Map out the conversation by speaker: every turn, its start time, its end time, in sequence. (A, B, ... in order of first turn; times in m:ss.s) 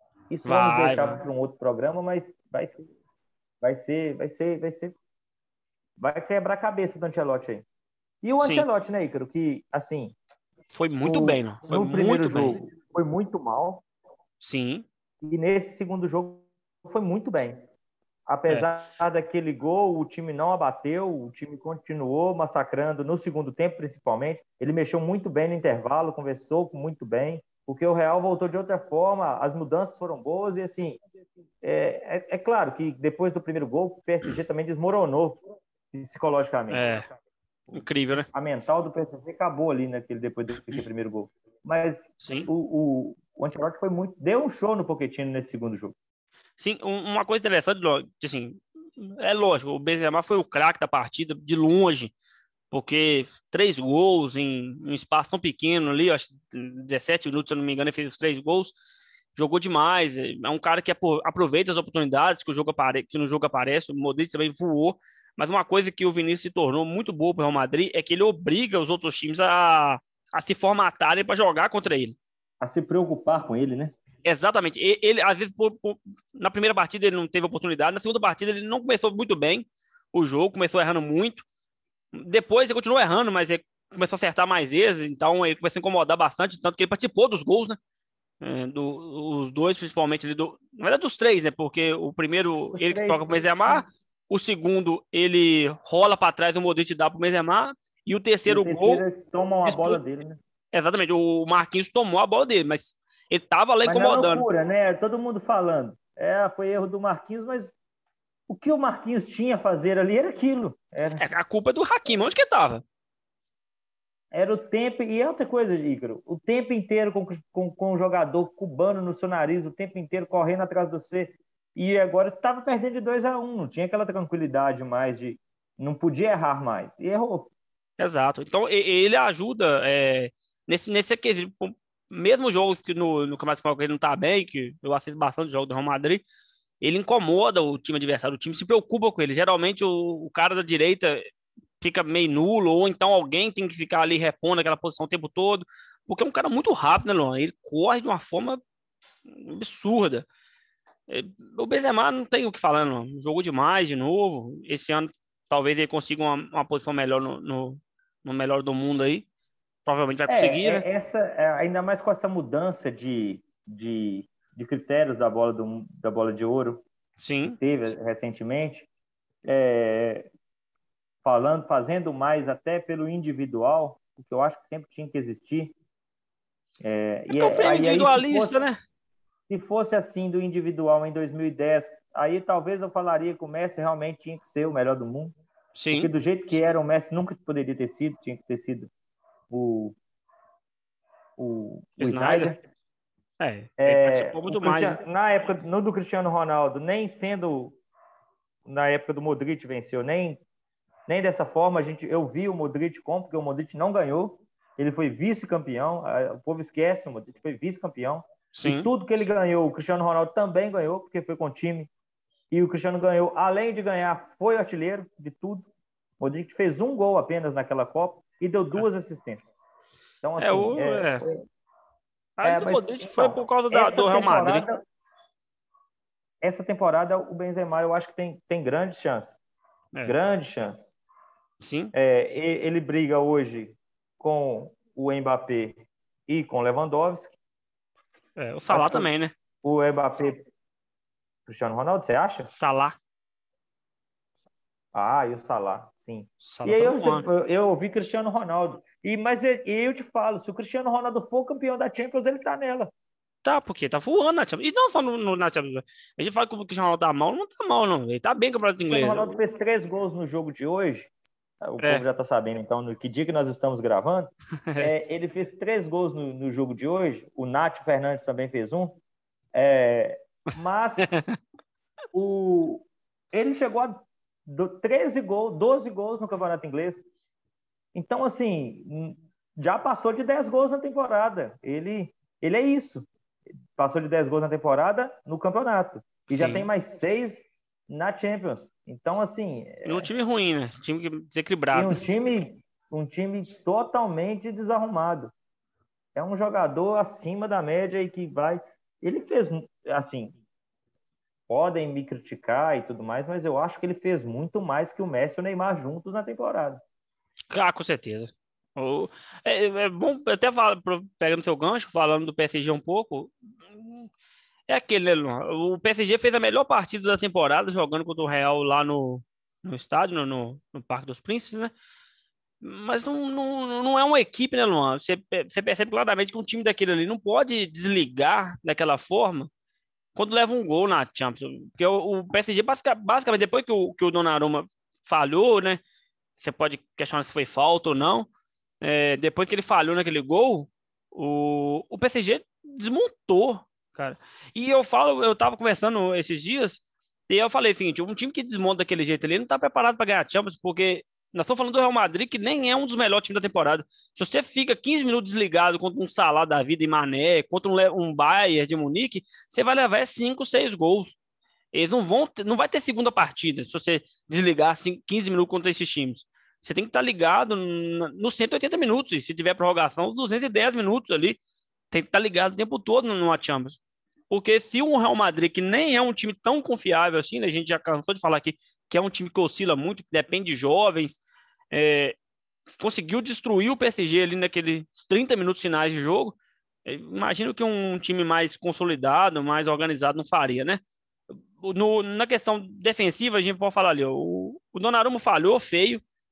0:00.3-0:02.9 A
0:00.4-0:01.2 B
0:03.6-0:05.0 A
0:06.0-0:07.6 A
0:08.2-0:10.1 A
0:08.4-0:08.6 B
0:10.7-0:12.6 B
0:11.0-0:13.8 A
0:14.4-0:14.8 B
0:15.2-0:17.6 A
0:18.3-0:31.0 A
0:31.6-0:35.4 A
0:35.9-0:37.0 A
0:36.7-0:37.1 B
0:37.7-0:45.9 A
0:37.7-0:38.3 B
0:42.2-0:42.5 B
0:46.6-0:52.1 B
0:52.7-0:58.7 B
0:59.4-1:12.2 B
1:12.6-1:13.9 A
1:14.2-1:21.4 B
1:22.1-1:27.8 B
1:28.4-1:39.0 B
1:32.7-1:33.8 A
1:38.5-1:40.4 A
1:39.6-1:40.0 B
1:40.7-1:44.4 B
1:43.8-1:47.7 A
1:48.5-1:51.2 A
1:51.2-1:52.8 B
1:54.3-2:07.5 A
2:08.0-2:16.2 B
2:16.8-2:21.3 B
2:21.8-2:28.6 B
2:29.3-2:30.2 B
2:31.1-2:39.2 B
2:39.8-2:40.8 B
2:40.3-2:46.8 A
2:47.2-2:47.6 B
2:47.6-2:48.9 A
2:49.4-2:50.3 A
2:51.2-2:55.7 A
2:56.8-2:58.6 A
2:57.3-2:58.8 B
2:59.5-3:05.3 A
3:05.8-3:06.1 B
3:05.9-3:08.9 A
3:09.5-3:10.0 A
3:11.4-3:12.6 A
3:12.0-3:12.5 B
3:13.4-3:15.0 B
3:13.8-3:17.8 A
3:18.6-3:20.4 A
3:21.1-3:31.9 A
3:28.5-3:28.9 B
3:32.5-3:35.7 A
3:36.2-3:39.5 A
3:40.2-3:41.4 A
3:40.4-3:41.2 B
3:42.4-3:44.6 B
3:42.4-3:44.8 A
3:46.4-3:49.4 A
3:50.0-3:50.9 A
3:51.6-3:51.9 B
3:51.9-3:57.4 A
3:58.4-3:59.3 B
3:58.7-3:59.1 A
3:59.6-4:00.4 A
4:01.4-4:02.5 A
4:02.5-4:03.0 B
4:04.9-4:12.9 A
4:06.4-4:07.3 B
4:13.4-4:19.4 B
4:18.9-4:21.1 A
4:21.6-4:29.0 A
4:29.5-4:31.1 A
4:31.0-4:31.4 B
4:32.1-4:37.0 A
4:37.9-4:43.1 A
4:43.7-4:50.1 A
4:46.3-4:46.7 B
4:49.8-4:52.0 B
4:51.7-4:55.3 A
4:56.1-5:00.4 A
5:01.5-5:06.8 A
5:07.5-5:14.1 B
5:14.7-5:21.7 B
5:22.6-5:29.5 B
5:30.2-5:35.8 B
5:36.4-5:38.3 B
5:38.8-6:01.1 B
6:01.7-6:11.4 B
6:11.9-6:13.8 B
6:14.3-6:21.2 B
6:21.7-6:22.2 B
6:22.7-6:30.8 B
6:31.6-6:36.0 B